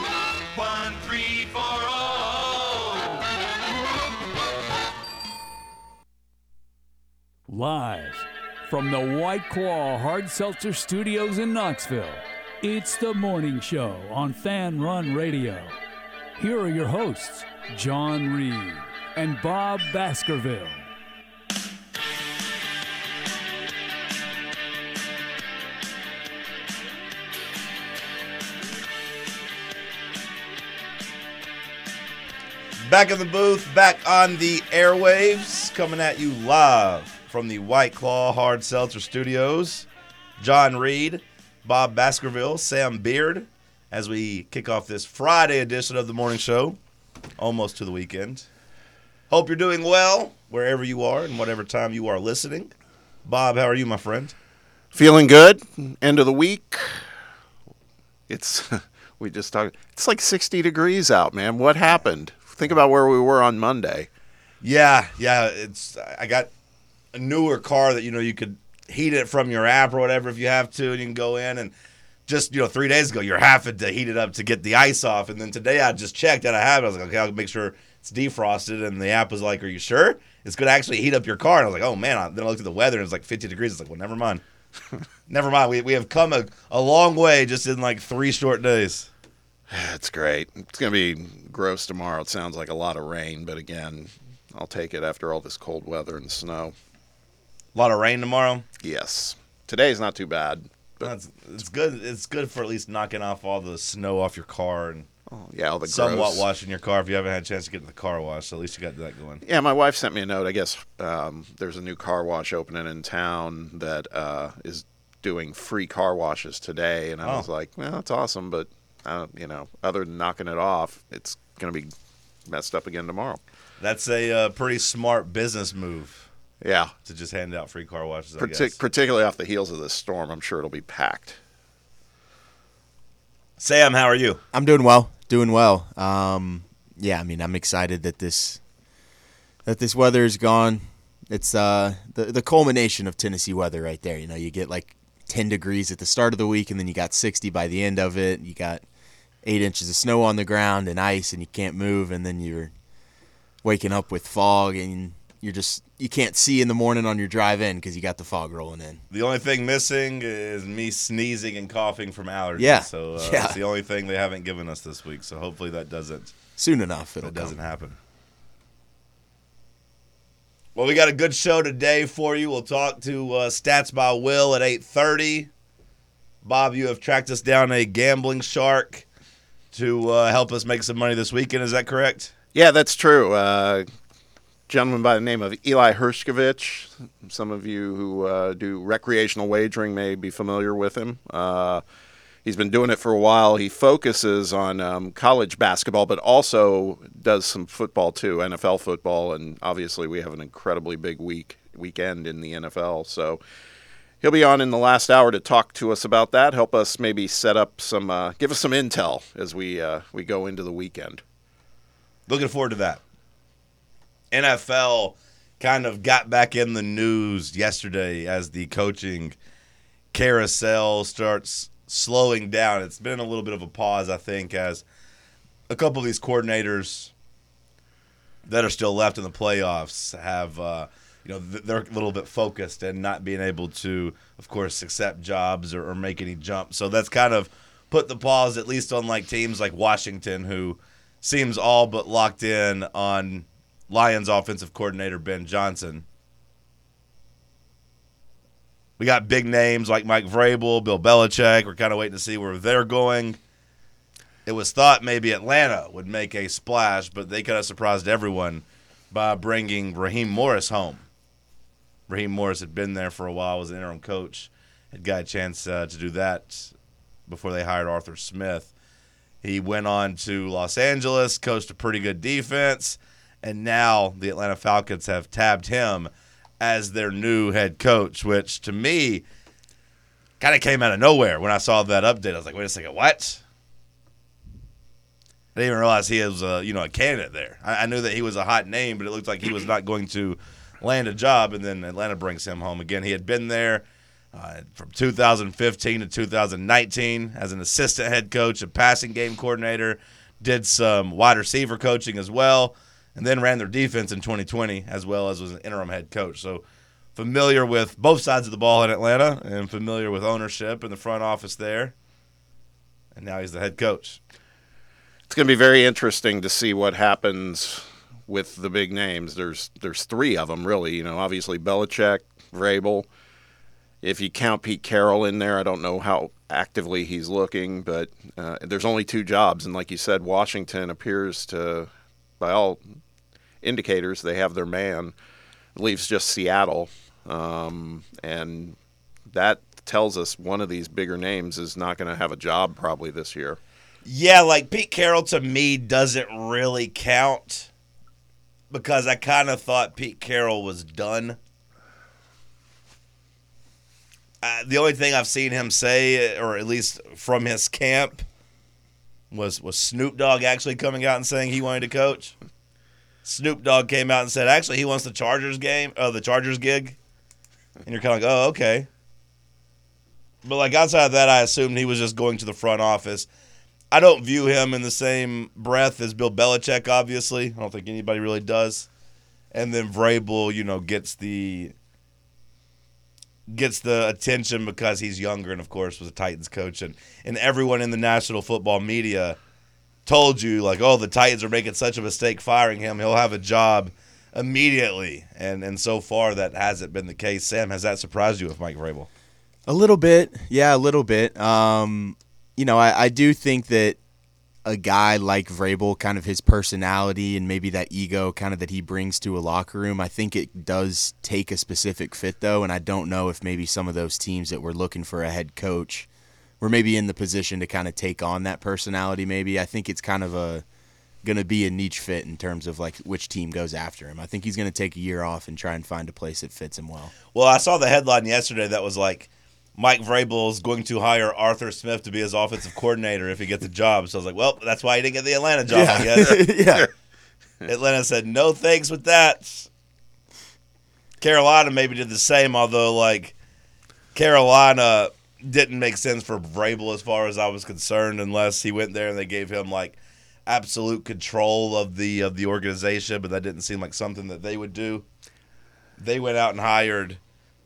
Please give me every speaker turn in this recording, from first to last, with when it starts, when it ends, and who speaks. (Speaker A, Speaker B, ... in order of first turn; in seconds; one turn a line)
Speaker A: 0.5-3.3
Speaker B: 7.5-15.8
Speaker B: 16.4-20.9
Speaker C: 32.8-39.9
Speaker C: 40.4-46.8
Speaker C: 47.4-48.5
Speaker C: 49.3-52.7
Speaker C: 53.2-54.4
Speaker D: 54.9-57.0
Speaker D: 58.3-64.1
Speaker C: 64.6-66.5
Speaker C: 67.1-71.7
Speaker C: 72.3-84.4
Speaker C: 85.3-89.1
Speaker D: 89.7-96.7
Speaker C: 97.8-98.7
Speaker D: 98.8-101.1
Speaker C: 101.0-105.1
Speaker D: 105.3-106.4
Speaker C: 105.9-109.4
Speaker D: 109.4-121.9
Speaker D: 122.5-123.4
Speaker C: 123.8-126.3
Speaker D: 126.6-126.9
Speaker C: 127.0-128.8
Speaker D: 128.4-131.4
Speaker C: 133.6-134.4
Speaker E: 134.5-138.6
Speaker E: 139.7-148.8
Speaker E: 149.4-152.7
Speaker E: 153.6-159.0
Speaker C: 159.1-166.4
Speaker E: 162.6-163.6
Speaker E: 166.6-167.6
Speaker C: 167.2-168.0
Speaker C: 170.8-175.5
Speaker C: 176.4-179.1
Speaker C: 179.7-182.3
Speaker D: 182.5-183.9
Speaker D: 184.7-191.8
Speaker D: 192.4-203.4
Speaker D: 204.2-211.2
Speaker C: 212.3-213.0
Speaker C: 214.3-219.3
Speaker C: 220.1-224.8
Speaker C: 225.7-227.1
Speaker C: 228.5-246.1
Speaker C: 249.0-253.4
Speaker C: 254.5-261.0
Speaker C: 262.1-266.7
Speaker C: 267.3-268.7
Speaker C: 269.4-279.2
Speaker C: 280.4-283.4
Speaker C: 285.6-306.6
Speaker C: 307.2-311.9
Speaker C: 313.1-314.2
Speaker D: 315.3-323.1
Speaker D: 324.0-332.8
Speaker D: 333.6-335.1
Speaker D: 335.8-338.8
Speaker D: 339.3-343.6
Speaker C: 344.1-347.7
Speaker C: 348.7-351.4
Speaker C: 354.4-358.2
Speaker C: 359.3-362.3
Speaker C: 363.2-367.0
Speaker C: 367.9-368.9
Speaker C: 370.4-373.3
Speaker C: 373.9-378.9
Speaker C: 379.5-381.7
Speaker C: 383.5-389.4
Speaker C: 390.1-399.1
Speaker E: 399.7-404.0
Speaker E: 404.6-416.1
Speaker E: 416.6-420.6
Speaker E: 421.2-427.1
Speaker C: 427.3-436.6
Speaker E: 435.7-436.9
Speaker C: 437.6-439.7
Speaker C: 441.2-443.3
Speaker C: 444.1-455.1
Speaker C: 456.0-457.2